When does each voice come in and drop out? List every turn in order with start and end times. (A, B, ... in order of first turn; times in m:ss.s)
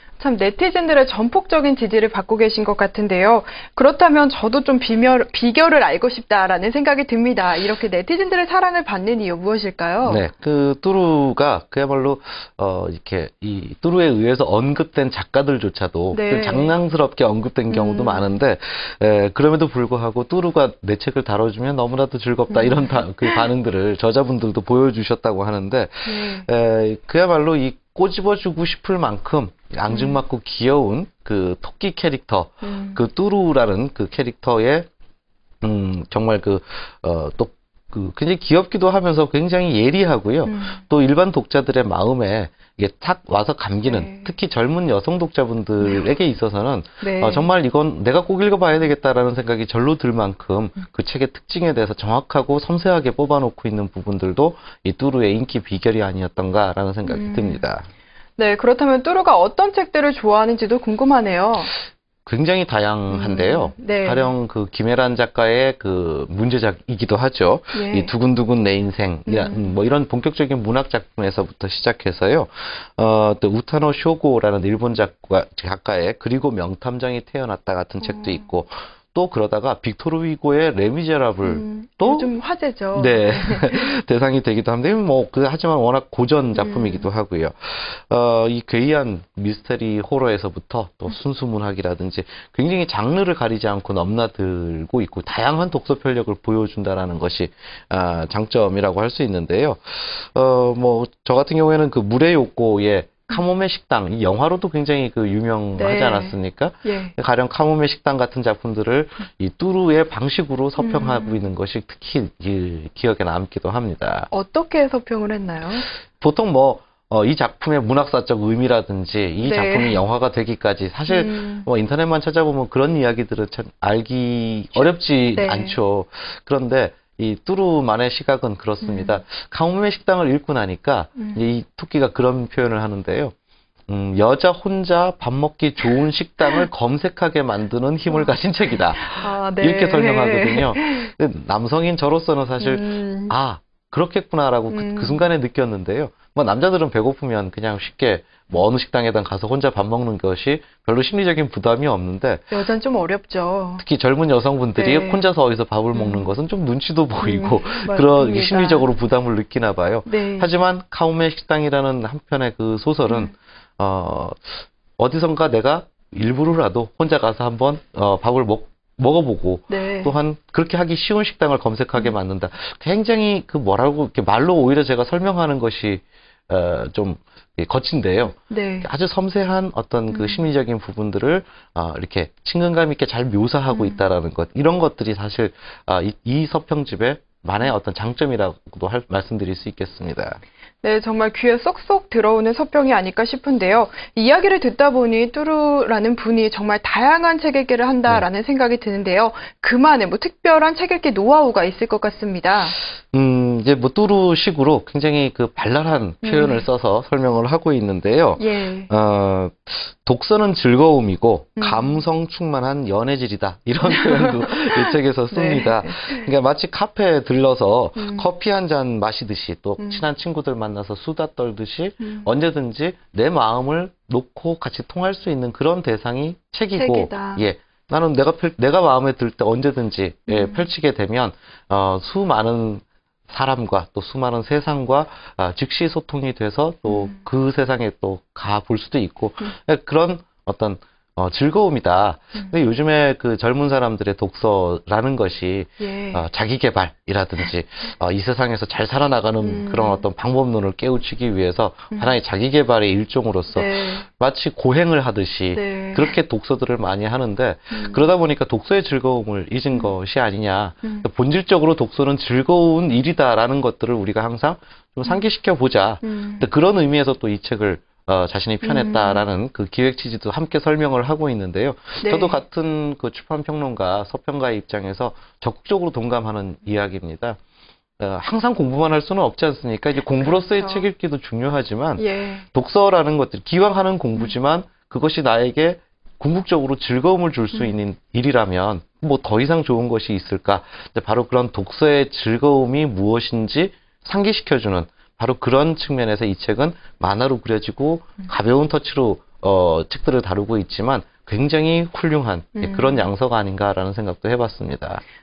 0:00.2-0:10.2 A
0:10.0-0:34.9 B
0:16.1-0:16.7 A
0:17.7-0:18.4 A
0:22.5-0:23.4 A
0:26.0-0:26.5 A
0:29.9-0:30.2 A
0:32.6-0:33.0 A
0:35.6-0:57.9 B
0:40.4-0:40.8 A
0:43.8-0:44.3 A
0:47.0-0:47.5 A
0:57.0-0:57.7 A
0:58.4-1:01.7 A
1:02.2-1:22.3 B
1:03.1-1:04.3 A
1:07.7-1:08.1 A
1:09.3-1:09.8 A
1:18.0-1:18.4 A
1:21.4-1:23.9 A
1:22.9-1:54.3 B
1:26.5-1:27.1 A
1:45.8-1:47.1 A
1:50.8-1:51.5 A
1:54.3-1:55.9 A
1:56.2-2:13.3 B
1:59.4-2:00.0 A
2:01.1-2:01.7 A
2:05.3-2:05.8 A
2:08.8-2:09.2 A
2:11.2-2:11.4 A
2:13.9-2:32.5 B
2:18.1-2:18.4 A
2:19.0-2:21.1 A
2:22.6-2:23.3 A
2:24.7-2:25.2 A
2:32.5-2:33.8 A
2:33.8-3:10.4 B
2:34.7-2:35.2 A
2:35.9-2:36.3 A
2:37.2-2:38.9 A
2:40.1-2:40.5 A
2:43.1-2:43.3 A
2:49.7-2:50.1 A
2:58.5-2:58.9 A
3:00.1-3:00.4 A
3:03.7-3:04.0 A
3:10.8-3:22.8 A
3:23.0-4:37.4 B
3:26.2-3:26.6 A
3:28.4-3:28.9 A
3:31.6-3:32.0 A
3:33.8-3:36.3 A
3:38.0-3:38.3 A
3:39.8-3:40.1 A
3:42.0-3:42.3 A
3:46.7-3:47.4 A
3:50.3-3:50.7 A
3:56.9-3:57.2 A
4:05.8-4:06.2 A
4:09.4-4:10.0 A
4:13.5-4:14.0 A
4:15.5-4:16.1 A
4:17.7-4:18.1 A
4:26.0-4:26.4 A
4:28.6-4:29.3 A
4:32.0-4:32.4 A
4:38.0-5:05.0 B
4:40.2-4:40.9 A
4:42.0-4:42.4 A
5:02.6-5:03.1 A